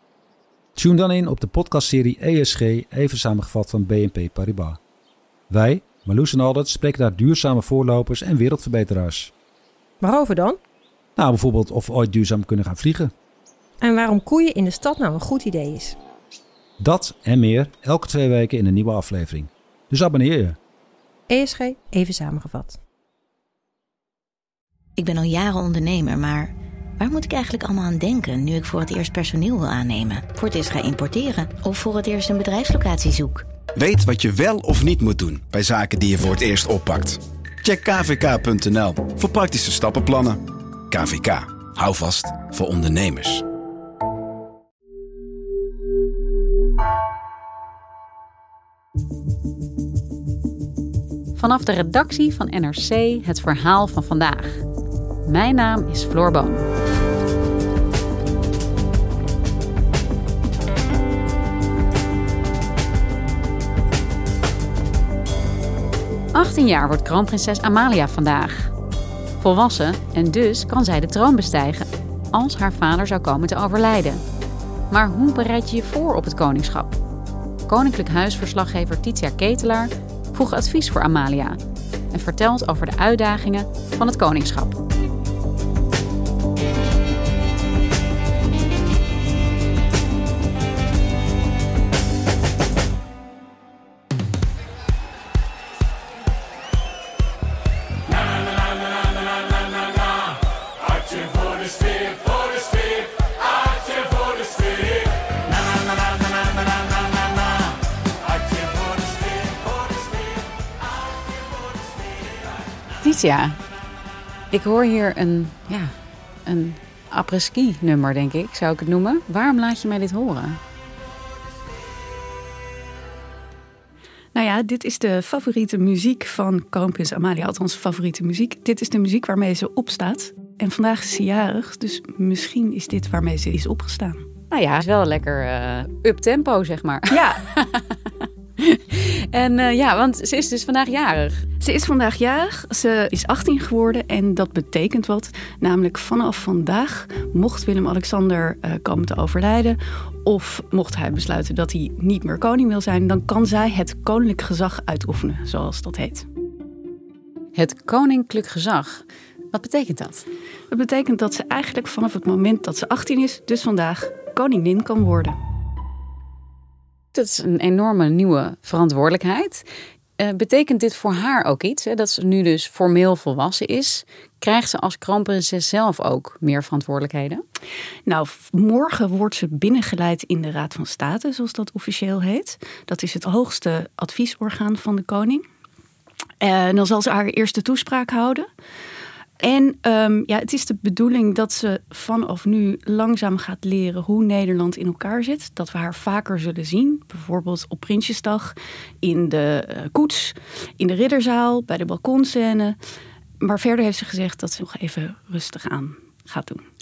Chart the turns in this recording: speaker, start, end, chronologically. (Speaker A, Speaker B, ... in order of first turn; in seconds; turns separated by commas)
Speaker A: 0.8-4.8, Speaker A: 5.5-9.3, Speaker B: 10.0-10.6, Speaker A: 11.2-13.1, Speaker B: 13.8-16.0, Speaker A: 16.8-20.6, Speaker B: 21.3-22.8, Speaker C: 25.0-33.5, Speaker D: 33.8-43.4, Speaker E: 51.4-54.6, Speaker E: 55.2-56.7, Speaker E: 66.3-68.7, Speaker E: 69.4-74.2, Speaker E: 74.9-77.0, Speaker E: 77.7-81.6, Speaker E: 82.1-84.8, Speaker E: 113.0-113.6, Speaker E: 114.5-115.9, Speaker E: 116.5-120.6, Speaker F: 124.3-134.2, Speaker E: 134.5-137.9, Speaker F: 137.1-137.4, Speaker E: 138.6-141.4, Speaker F: 141.6-156.3, Speaker E: 157.6-160.2, Speaker F: 160.7-165.4, Speaker E: 167.1-169.7, Speaker E: 170.2-177.4, Speaker F: 178.1-185.4, Speaker F: 186.4-188.5, Speaker F: 189.4-202.8, Speaker F: 203.4-206.6